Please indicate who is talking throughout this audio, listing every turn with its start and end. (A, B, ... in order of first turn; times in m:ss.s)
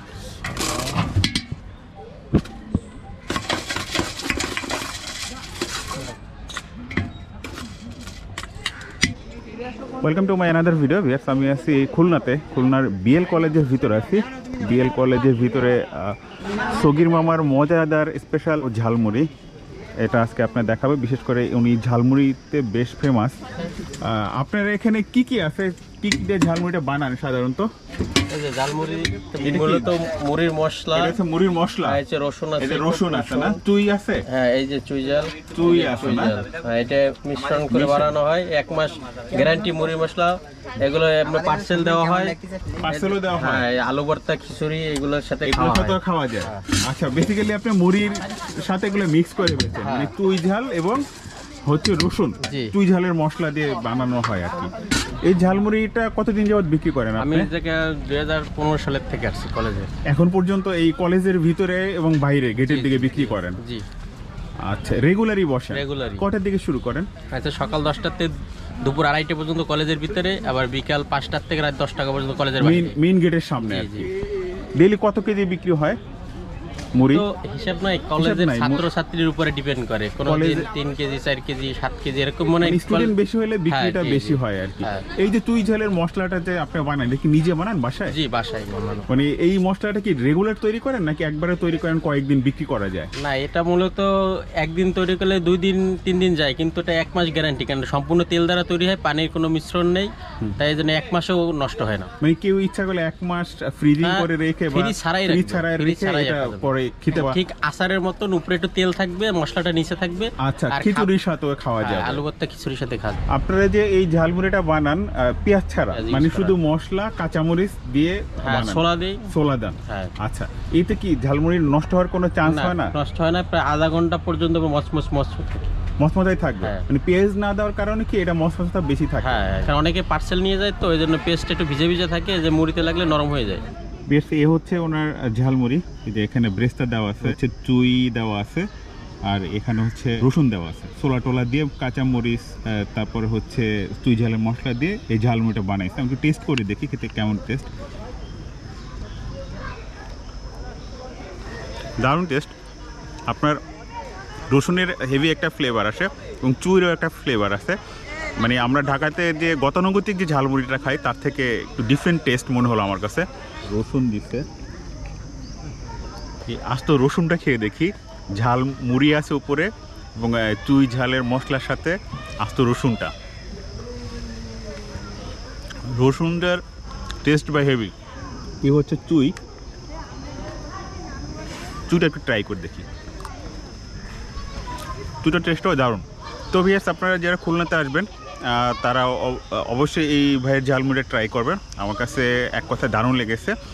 0:00.5-0:01.0 A
0:10.0-0:19.3 B
0:20.0-0:23.4 B
0:24.0-0:27.7 B
0:28.3-0:31.2 A
0:29.4-0:30.0 B
0:30.9-0:32.0 B
0:31.8-0:33.6 A
0:32.6-0:34.2 B
0:34.3-0:46.6 A
0:35.6-0:36.4 B
0:37.7-0:38.1 B
0:42.8-0:43.7 B
0:45.4-0:51.0 B
0:49.8-0:50.1 A
0:51.6-0:57.5 B
0:52.4-0:52.7 A
0:57.2-0:59.9 A
1:00.1-1:03.6 B
1:02.7-1:03.8 A
1:04.6-1:07.1 B
1:05.7-1:06.3 A
1:07.3-1:13.0 A
1:12.6-1:14.1 B
1:13.6-1:14.1 A
1:14.8-1:16.0 B
1:17.0-1:17.2 B
1:17.1-1:23.2 A
1:18.2-1:18.9 B
1:20.2-1:20.7 B
1:22.6-1:28.2 B
1:23.7-1:25.1 A
1:28.1-1:29.1 A
1:29.1-1:33.1 B
1:33.2-1:42.1 A
1:42.2-1:47.4 B
1:44.0-1:51.1 A
1:50.4-1:52.2 B
1:51.8-1:53.2 A
1:53.3-2:02.9 B
1:55.9-1:56.6 A
1:58.4-1:59.3 A
1:59.9-2:00.2 A
2:02.4-2:05.7 A
2:06.0-2:09.4 B
2:06.6-2:06.9 A
2:09.2-2:13.6 A
2:14.1-2:18.7 B
2:19.2-2:27.7 B
2:32.0-2:32.5 B
2:33.3-2:33.6 B
2:34.5-2:37.8 B
2:38.4-2:44.5 B
2:46.5-2:53.1 B
2:55.9-2:56.6 B
2:57.2-2:57.9 B
2:58.6-2:59.4 B
3:01.9-3:02.9 B
3:05.2-3:13.6 B